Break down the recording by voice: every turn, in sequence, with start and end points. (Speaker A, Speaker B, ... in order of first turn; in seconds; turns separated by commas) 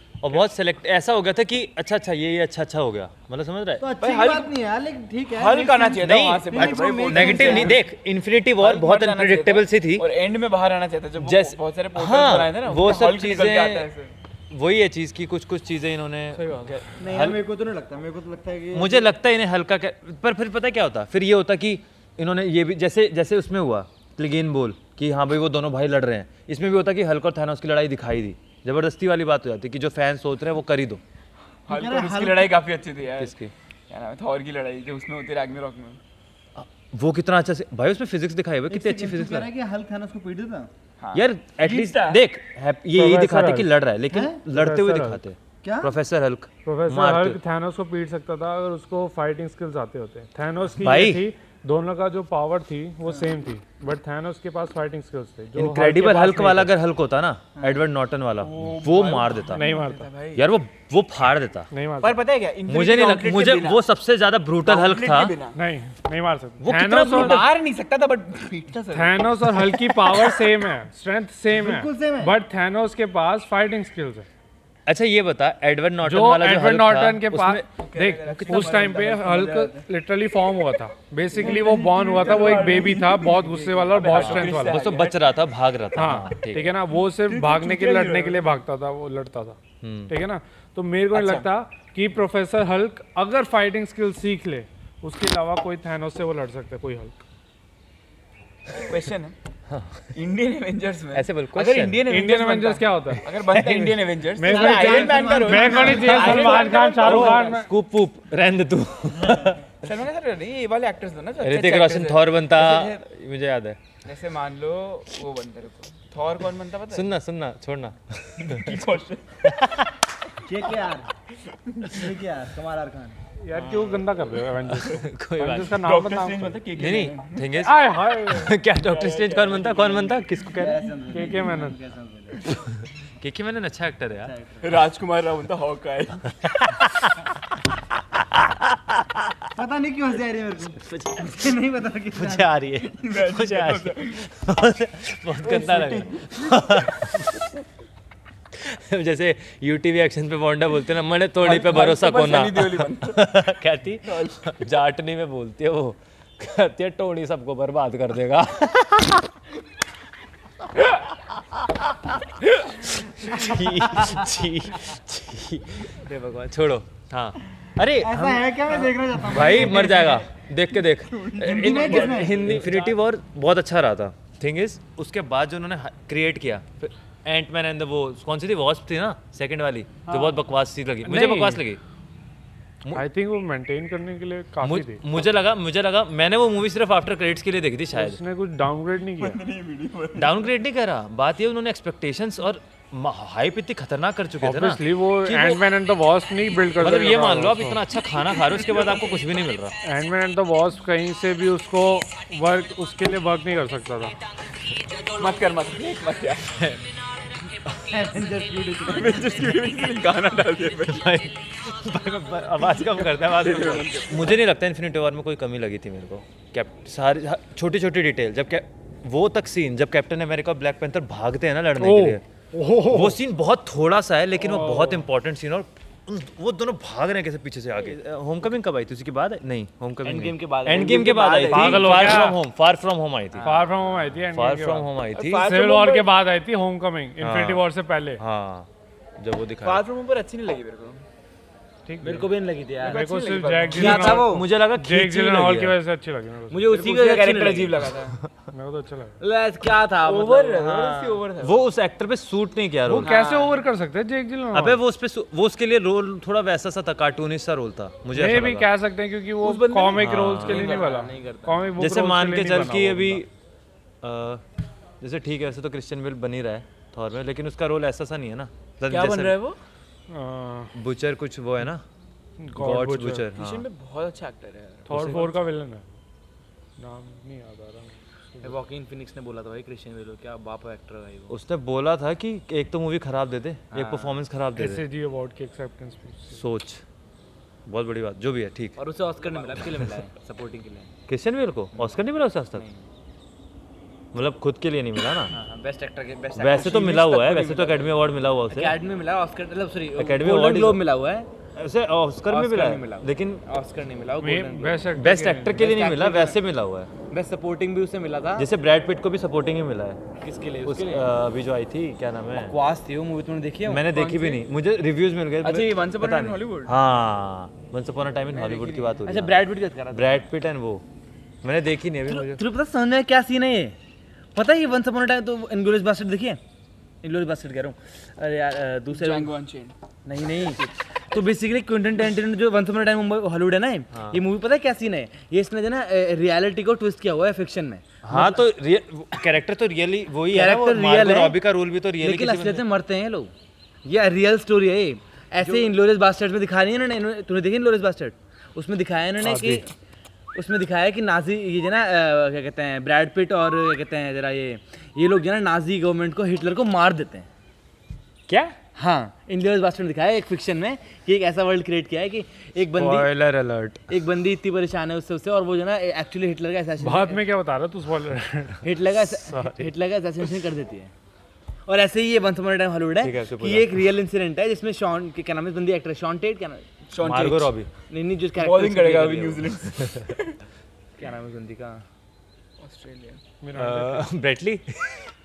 Speaker A: 0.2-3.9, Speaker B: 3.8-7.8, Speaker C: 4.0-4.5, Speaker C: 5.3-7.8, Speaker A: 6.0-10.1, Speaker C: 8.6-14.1, Speaker A: 11.2-13.9, Speaker A: 14.5-17.4, Speaker B: 17.0-19.0, Speaker A: 18.7-31.0, Speaker C: 31.7-33.3, Speaker B: 31.7-32.5, Speaker A: 33.2-33.5, Speaker C: 33.9-36.0, Speaker A: 36.5-39.5, Speaker B: 38.7-40.7, Speaker C: 41.0-42.2, Speaker A: 41.1-47.4, Speaker D: 42.9-43.7, Speaker B: 44.1-44.4, Speaker D: 44.5-45.2, Speaker B: 45.6-45.9, Speaker D: 46.6-56.7, Speaker A: 50.8-51.2, Speaker C: 53.0-53.3, Speaker A: 55.5-59.7, Speaker C: 58.4-60.5, Speaker D: 59.5-60.1, Speaker A: 60.3-61.7, Speaker D: 61.7-62.2, Speaker C: 62.0-63.8, Speaker A: 62.7-65.3, Speaker C: 64.6-65.6, Speaker D: 65.5-67.4, Speaker A: 66.6-67.5, Speaker C: 67.0-70.3, Speaker D: 68.9-74.3, Speaker B: 71.5-72.3, Speaker A: 74.8-77.6, Speaker D: 76.0-84.8, Speaker C: 77.8-79.7, Speaker A: 78.3-78.8, Speaker B: 79.0-79.8, Speaker C: 81.3-85.3, Speaker A: 84.0-86.7, Speaker D: 85.9-89.6, Speaker C: 87.0-88.5, Speaker A: 89.8-90.1, Speaker D: 90.1-97.2, Speaker C: 91.1-91.5, Speaker C: 98.7-99.3, Speaker A: 99.7-100.2, Speaker C: 100.1-107.6, Speaker A: 101.1-102.0, Speaker D: 102.1-103.3, Speaker A: 103.5-104.0, Speaker D: 104.3-107.7, Speaker B: 104.4-106.4, Speaker A: 105.6-109.7, Speaker C: 109.8-113.0, Speaker A: 111.4-113.8, Speaker C: 114.0-117.1, Speaker A: 116.9-118.9, Speaker C: 118.4-119.4, Speaker A: 119.4-120.0, Speaker B: 120.4-121.1, Speaker C: 120.5-120.8, Speaker C: 121.5-122.1, Speaker B: 121.9-123.2, Speaker D: 123.4-126.6, Speaker A: 123.5-124.0, Speaker C: 123.5-124.0, Speaker A: 124.6-125.8, Speaker C: 125.7-127.5, Speaker A: 126.7-131.1, Speaker D: 127.6-128.5, Speaker C: 128.8-131.7, Speaker B: 130.6-132.4, Speaker D: 131.0-131.8, Speaker A: 132.5-134.4, Speaker B: 134.3-134.7, Speaker C: 134.6-136.3, Speaker A: 136.4-137.3, Speaker A: 138.1-139.2, Speaker B: 139.5-142.5, Speaker A: 140.8-147.4, Speaker C: 142.9-144.2, Speaker C: 145.4-146.5, Speaker A: 148.5-159.3, Speaker C: 151.4-153.2, Speaker C: 154.1-154.4, Speaker A: 161.5-181.8, Speaker E: 166.1-166.5, Speaker B: 168.0-170.2, Speaker C: 171.2-172.7, Speaker B: 171.7-172.4, Speaker E: 172.1-172.9, Speaker D: 181.0-181.6, Speaker D: 182.9-185.0, Speaker A: 184.6-188.2, Speaker D: 187.9-189.4, Speaker C: 189.2-190.4, Speaker A: 190.1-195.6, Speaker D: 194.4-197.8, Speaker A: 196.8-199.7, Speaker C: 198.3-199.1, Speaker D: 199.8-204.2, Speaker C: 205.1-206.5, Speaker A: 206.5-206.9, Speaker B: 207.9-209.3, Speaker C: 208.8-211.1, Speaker A: 209.1-209.6, Speaker A: 210.9-222.2, Speaker C: 213.2-214.3, Speaker D: 221.8-223.2, Speaker A: 222.9-233.6, Speaker D: 224.4-225.1, Speaker E: 230.0-232.1, Speaker C: 230.7-232.1, Speaker D: 231.5-232.4, Speaker E: 233.3-233.7, Speaker D: 233.4-238.2, Speaker A: 234.3-235.4, Speaker C: 235.1-236.1, Speaker A: 237.2-237.7, Speaker A: 238.2-239.8, Speaker C: 239.6-241.0, Speaker D: 241.9-242.3, Speaker E: 242.0-243.0, Speaker C: 242.8-244.2, Speaker D: 242.8-246.6, Speaker A: 243.7-245.8, Speaker E: 243.7-244.4, Speaker E: 246.5-247.8, Speaker C: 246.7-248.2, Speaker D: 248.5-249.2, Speaker E: 249.2-250.7, Speaker C: 250.0-251.6, Speaker A: 250.6-253.1, Speaker D: 252.8-254.8, Speaker C: 253.0-253.6, Speaker A: 254.5-258.7, Speaker D: 258.1-263.2, Speaker C: 259.4-261.1, Speaker A: 260.0-260.7, Speaker E: 260.5-261.6, Speaker A: 261.8-263.3, Speaker A: 264.0-264.4, Speaker A: 265.0-269.4, Speaker E: 268.9-269.6, Speaker D: 270.1-270.7, Speaker A: 270.7-271.8, Speaker D: 272.4-273.3, Speaker A: 272.6-273.6, Speaker C: 273.3-275.2, Speaker D: 274.9-275.9, Speaker A: 274.9-275.3, Speaker D: 276.8-278.6, Speaker E: 278.4-281.4, Speaker A: 281.3-284.8, Speaker E: 283.7-284.2, Speaker D: 284.5-286.4, Speaker A: 286.3-286.8, Speaker A: 287.6-288.8, Speaker E: 288.8-290.9, Speaker A: 289.3-290.0, Speaker A: 291.1-292.6, Speaker E: 292.5-292.9, Speaker A: 294.1-295.3, Speaker E: 295.3-297.9, Speaker A: 296.4-298.7, Speaker E: 298.5-301.3, Speaker A: 300.0-300.8, Speaker A: 301.6-303.4, Speaker E: 302.3-304.9, Speaker D: 304.2-305.5, Speaker A: 304.9-306.9, Speaker E: 305.5-306.4, Speaker E: 307.1-308.4, Speaker A: 308.4-310.0, Speaker E: 310.2-311.1, Speaker A: 310.6-312.6, Speaker E: 312.5-313.9, Speaker A: 313.7-319.4, Speaker C: 313.9-314.4, Speaker C: 315.4-316.8, Speaker C: 318.3-319.0, Speaker E: 319.0-320.3, Speaker A: 319.9-320.8, Speaker A: 321.4-322.4, Speaker E: 322.1-323.8, Speaker E: 324.3-326.4, Speaker E: 327.0-329.3, Speaker C: 328.9-329.7, Speaker E: 330.0-338.5, Speaker A: 333.9-334.2, Speaker A: 338.0-342.6, Speaker E: 340.3-341.4, Speaker E: 342.0-343.3, Speaker E: 343.8-349.7, Speaker D: 349.2-349.7, Speaker E: 350.3-357.3, Speaker E: 358.3-363.1, Speaker A: 362.7-363.9, Speaker E: 363.9-367.2, Speaker D: 366.8-368.7, Speaker E: 368.6-370.9, Speaker A: 369.3-369.7, Speaker E: 371.6-376.6, Speaker A: 373.0-373.9, Speaker C: 376.9-377.5, Speaker A: 377.0-377.7, Speaker E: 377.9-379.5, Speaker C: 378.4-380.4, Speaker E: 381.0-381.8, Speaker C: 382.6-383.2, Speaker D: 383.4-384.1, Speaker A: 383.5-385.1